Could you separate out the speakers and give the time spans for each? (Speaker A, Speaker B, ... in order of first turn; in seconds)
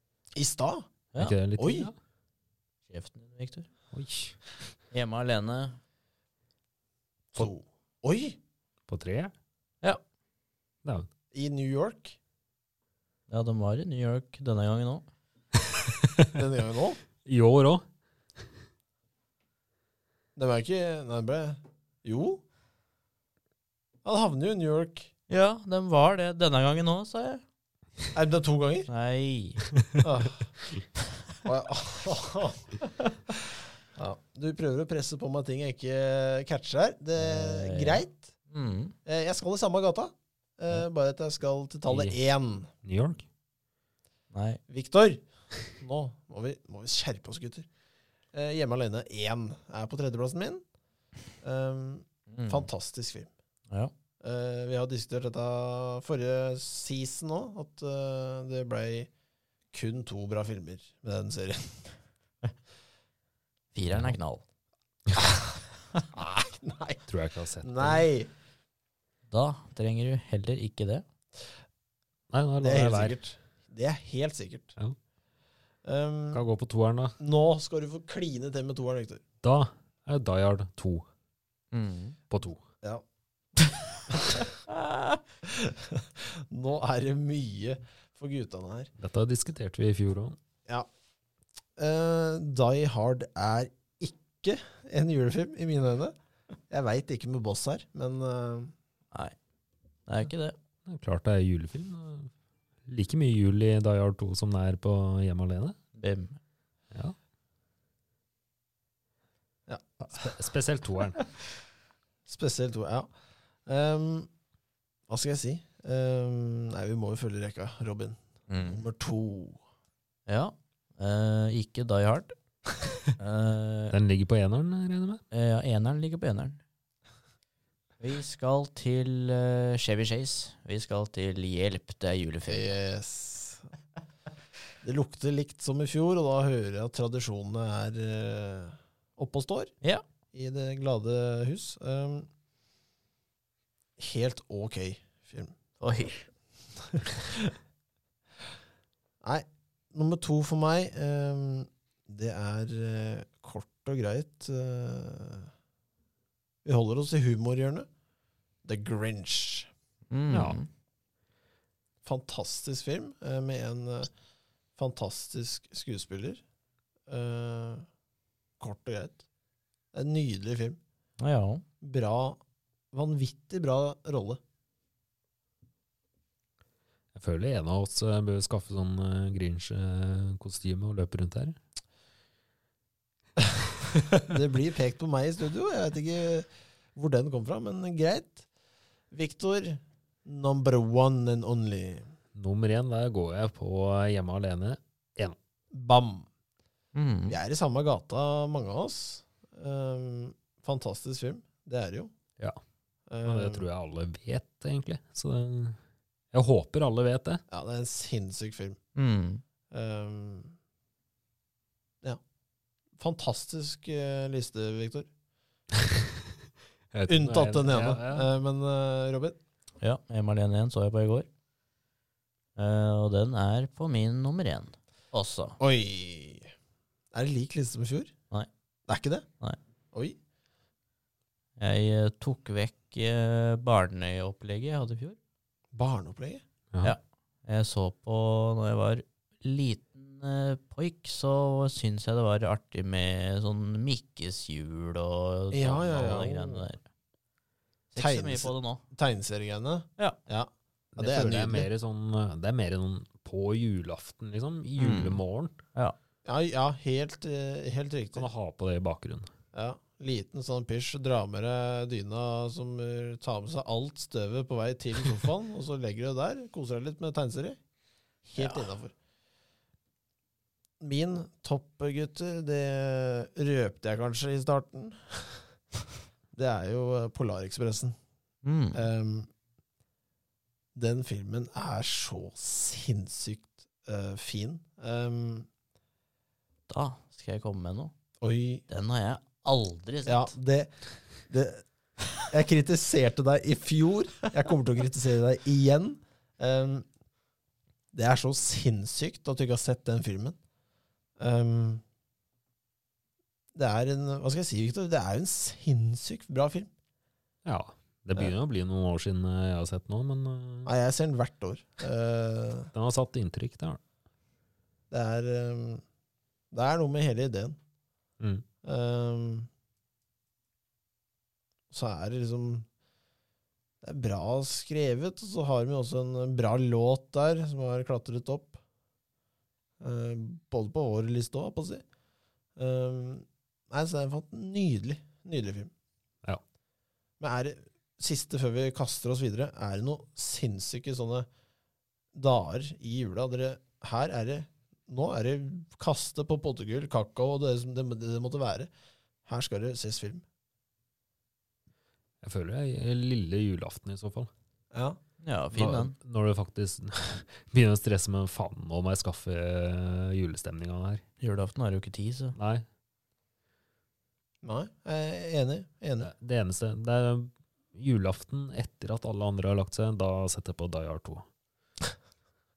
Speaker A: 0.3-0.8, 1.6-1.9, 7.3-8.4, 11.3-12.2, 16.3-17.0, 20.4-22.4, 24.0-25.1, 28.1-28.9, 30.0-30.5, 31.4-32.8, 33.9-38.3, 39.0-42.7, 44.7-47.7, 48.3-50.6, 51.4-53.3, 54.2-59.1, 59.7-62.0, 66.1-67.0, 67.6-68.3, 72.6-74.7, 75.8-76.4, 77.2-79.2, 85.4-88.9, 91.8-96.1, 96.7-98.7, 109.7-110.3, 112.3-113.1, 113.7-114.3, 115.1-119.6, 132.5-133.7, 134.8-139.7, 140.3-142.3, 144.0-145.5, 147.0-147.4, 149.2-155.5, 156.6-157.9, 158.6-159.7, 162.0-164.1, 164.8-166.4, 167.1-167.8, 168.6-169.2, 169.9-170.8, 171.8-172.4, 172.9-174.4, 184.2-188.4, 189.1-192.1, 195.7-196.3, 197.3-202.1, 203.1-203.7, 207.5-208.8, 209.7-210.5, 213.0-215.1, 217.1-219.4, 225.6-226.5, 227.1-228.1, 228.9-229.2, 235.7-236.4, 245.5-246.7, 248.0-251.7, 256.2-258.3, 259.5-267.6, 268.2-268.9, 270.8-275.5, 276.3-277.9, 278.7-279.3, 280.7-285.5, 288.2-288.6, 290.1-290.7, 291.3-291.6, 292.2-296.9, 297.9-300.4, 301.2-301.8, 303.5-306.7, 310.6-312.7, 314.9-315.8, 316.5-317.6, 318.6-319.5, 321.7-322.6, 323.8-328.6, 329.8-331.8, 332.6-335.7, 337.2-341.3, 342.1-348.7, 349.2-350.2, 354.7-355.0, 364.4-366.1
Speaker B: 1.2-1.9, 3.9-4.4, 8.9-9.3, 17.2-17.8, 41.9-42.2, 42.8-43.2, 67.0-68.1, 72.3-73.2, 76.3-77.2, 79.4-81.0, 82.3-82.6, 89.0-90.4, 100.8-102.3, 102.9-105.7, 110.1-111.2, 123.9-125.2, 160.3-160.6, 177.1-181.6, 192.3-195.3, 203.2-205.8, 206.3-207.4, 216.9-218.3, 250.9-255.6, 258.1-259.3, 307.4-310.7, 312.7-313.8, 352.2-354.3, 355.5-361.0, 362.3-362.6, 366.0-371.2
Speaker C: 2.9-3.7, 4.9-5.8, 13.3-15.1, 25.3-27.4, 28.9-29.6, 37.2-38.9, 44.3-44.6, 52.3-52.7, 63.7-64.4, 69.3-71.0, 81.7-82.2, 84.7-85.2, 100.1-100.5, 106.0-106.4, 118.5-118.8, 120.3-122.3, 123.2-124.0, 125.3-126.6, 128.0-132.8, 145.8-146.3, 160.1-160.7, 171.2-171.6, 196.9-197.4, 208.9-209.4, 219.8-221.3, 222.6-225.6, 231.6-235.2, 236.8-246.8, 247.9-248.8, 254.8-255.2, 268.4-268.7, 278.4-278.9, 286.7-287.9, 288.7-290.3, 355.2-355.9, 361.2-362.4